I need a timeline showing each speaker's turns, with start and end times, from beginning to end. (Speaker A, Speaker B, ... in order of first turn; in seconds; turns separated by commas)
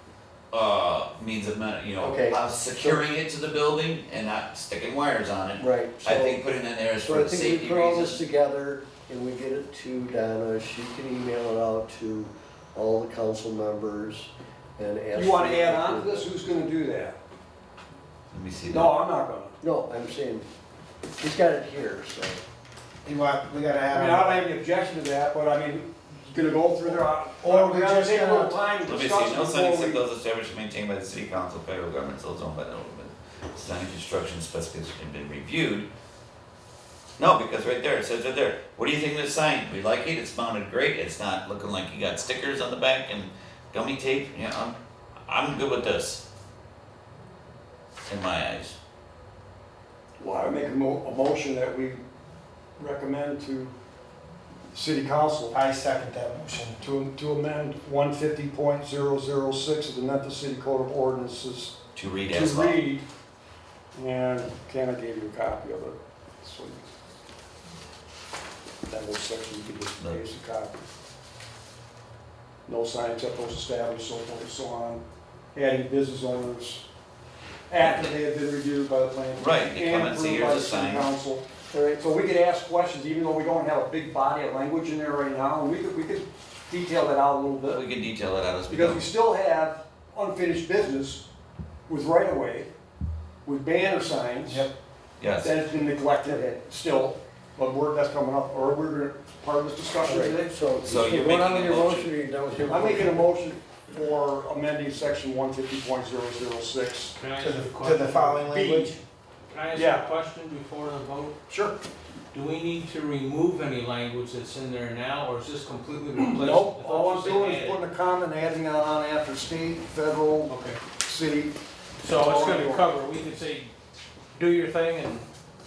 Speaker A: 0.5-8.2, Speaker B: 2.0-3.0, Speaker B: 5.6-6.4, Speaker B: 7.0-16.3, Speaker C: 15.1-17.1, Speaker A: 18.3-18.9, Speaker C: 18.6-19.6, Speaker B: 19.6-20.4, Speaker B: 21.2-22.4, Speaker D: 23.1-24.5, Speaker C: 23.9-30.0, Speaker D: 27.4-28.6, Speaker A: 28.8-35.9, Speaker A: 37.2-44.7, Speaker A: 45.3-46.2, Speaker A: 48.1-48.8, Speaker C: 50.2-52.0, Speaker C: 52.8-53.7, Speaker C: 54.7-55.6, Speaker D: 55.5-56.8, Speaker C: 56.8-61.8, Speaker A: 61.9-62.8, Speaker C: 62.3-63.0, Speaker C: 63.9-66.9, Speaker C: 68.9-70.8, Speaker C: 72.7-75.0, Speaker C: 75.5-76.8, Speaker C: 77.7-87.8, Speaker A: 77.8-78.1, Speaker A: 79.4-81.1, Speaker B: 81.7-82.1, Speaker A: 87.7-89.0, Speaker C: 88.7-91.2, Speaker C: 91.9-92.7, Speaker C: 93.4-94.7, Speaker D: 94.4-94.7, Speaker A: 95.2-95.5, Speaker C: 95.4-100.5, Speaker B: 100.0-103.3, Speaker A: 100.8-102.1, Speaker C: 102.7-107.1, Speaker E: 107.1-108.7, Speaker D: 107.4-109.0, Speaker C: 108.5-108.9, Speaker E: 109.5-111.4, Speaker C: 109.7-110.0, Speaker C: 111.5-111.8, Speaker E: 112.3-117.8, Speaker C: 116.2-121.5, Speaker E: 120.5-120.8, Speaker E: 122.0-123.7, Speaker C: 122.1-122.9, Speaker E: 124.3-125.2